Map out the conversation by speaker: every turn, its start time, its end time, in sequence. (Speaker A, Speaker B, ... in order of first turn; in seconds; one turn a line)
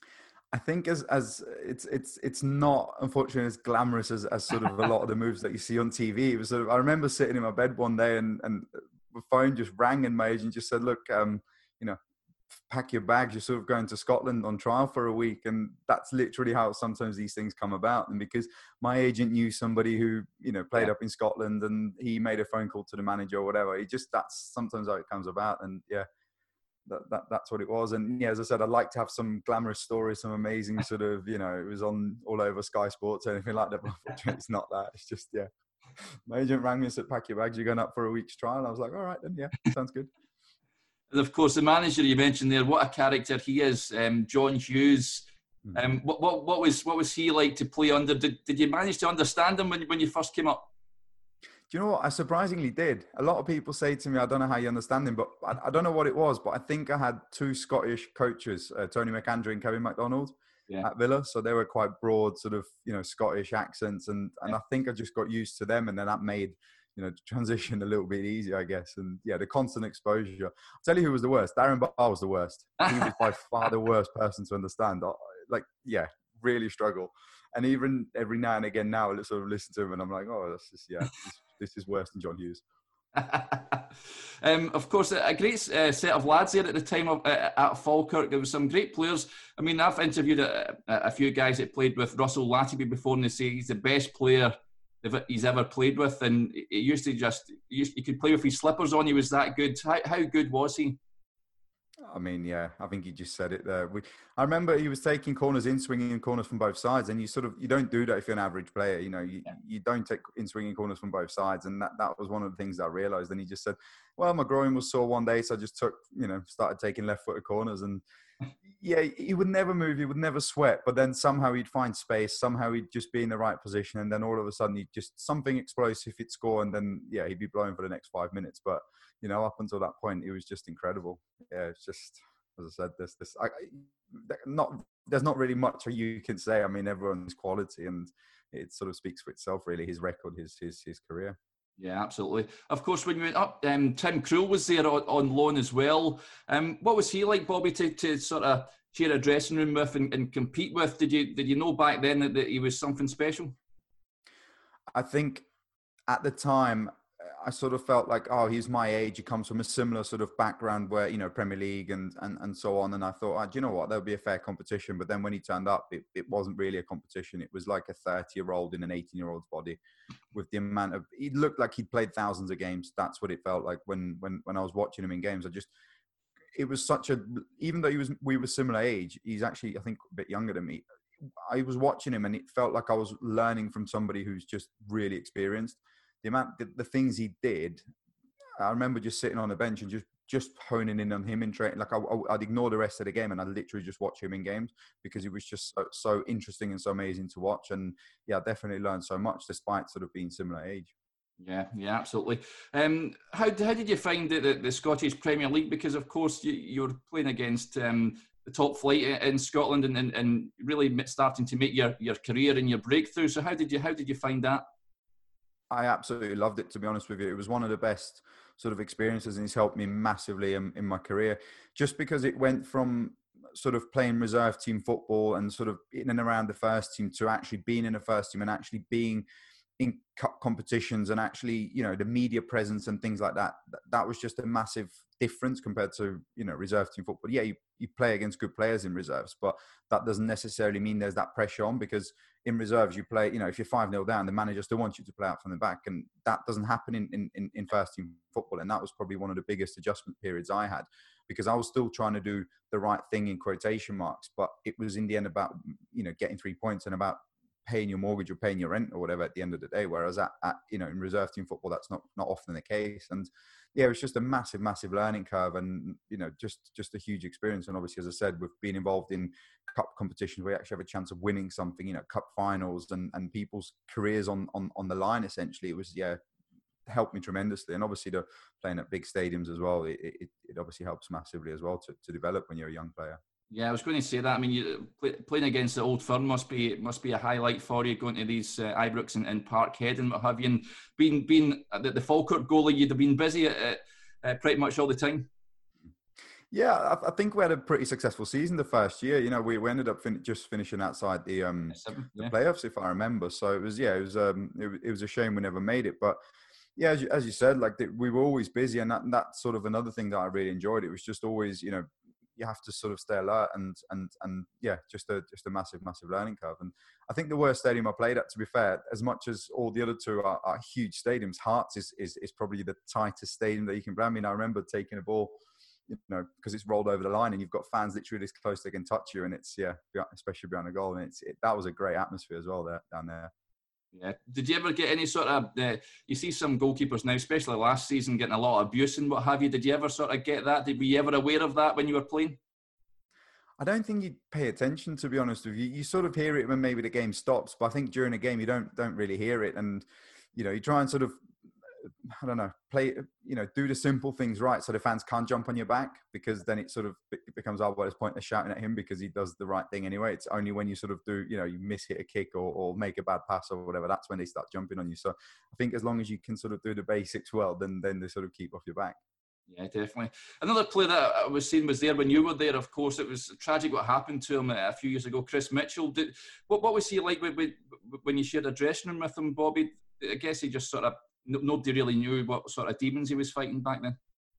Speaker A: 0.5-12.0
Speaker A: 12.6-26.1
Speaker A: 26.9-40.1
Speaker B: 41.1-50.7
Speaker A: 51.7-82.6
Speaker B: 83.1-101.0
Speaker A: 102.0-118.0
Speaker A: 118.7-141.4
Speaker B: 141.8-153.6
Speaker A: 154.9-155.4
Speaker A: 156.1-169.8
Speaker A: 170.3-175.7
Speaker A: 176.5-180.8
Speaker A: 181.4-187.8
Speaker A: 188.6-200.9
Speaker B: 201.4-214.6
Speaker A: 215.7-229.2
Speaker A: 229.8-276.2
Speaker A: 276.9-283.2
Speaker B: 283.5-295.3
Speaker A: 296.5-306.2
Speaker B: 301.7-302.3
Speaker A: 306.8-325.4
Speaker A: 325.9-333.3
Speaker B: 333.9-342.4
Speaker A: 343.6-351.2
Speaker A: 351.8-369.0
Speaker B: 369.5-384.0